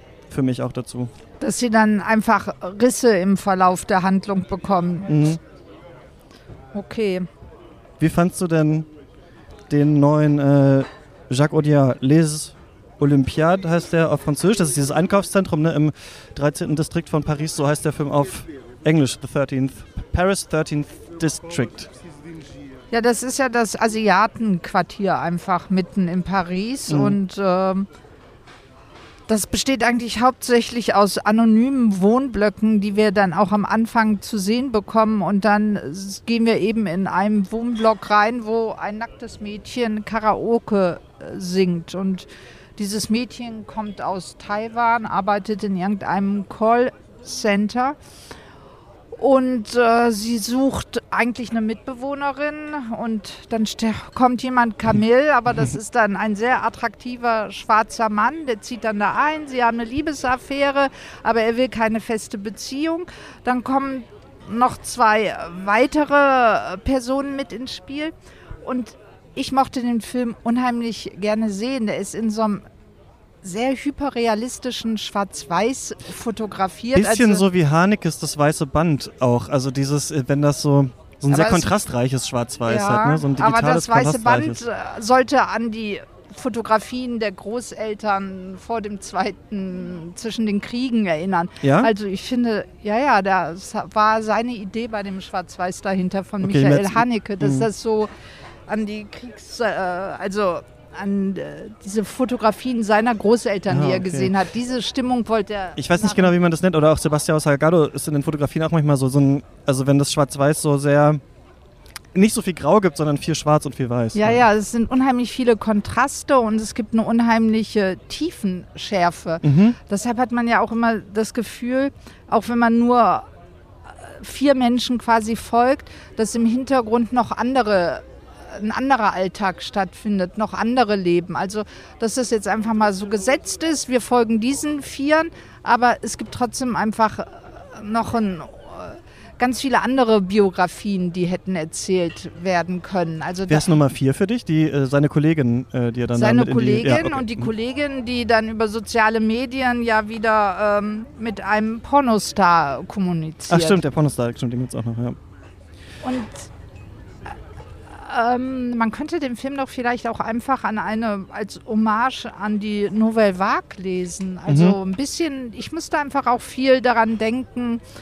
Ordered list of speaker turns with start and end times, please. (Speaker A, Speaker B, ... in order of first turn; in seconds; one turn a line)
Speaker A: 0.3-1.1
Speaker B: 1.4-5.4
Speaker A: 5.1-5.4
Speaker B: 6.7-7.3
Speaker A: 8.0-8.9
Speaker A: 9.7-21.9
Speaker B: 22.9-27.9
Speaker A: 26.9-27.2
Speaker B: 29.3-48.0
Speaker B: 49.1-72.6
Speaker B: 73.4-77.4
Speaker A: 77.0-84.6
Speaker B: 81.3-81.7
Speaker B: 82.7-98.1
Speaker A: 91.6-91.9
Speaker A: 96.4-97.7
Speaker B: 98.7-106.3
Speaker A: 103.7-104.3
Speaker A: 105.8-111.2
Speaker A: 112.1-114.5
Speaker B: 114.1-123.3
Speaker A: 119.4-119.8
Speaker B: 123.9-143.7
Speaker A: 143.5-147.5
Speaker B: 146.1-153.8
Speaker A: 153.5-155.2
Speaker B: 156.0-156.5
Speaker B: 157.9-167.8
Speaker A: 164.5-164.8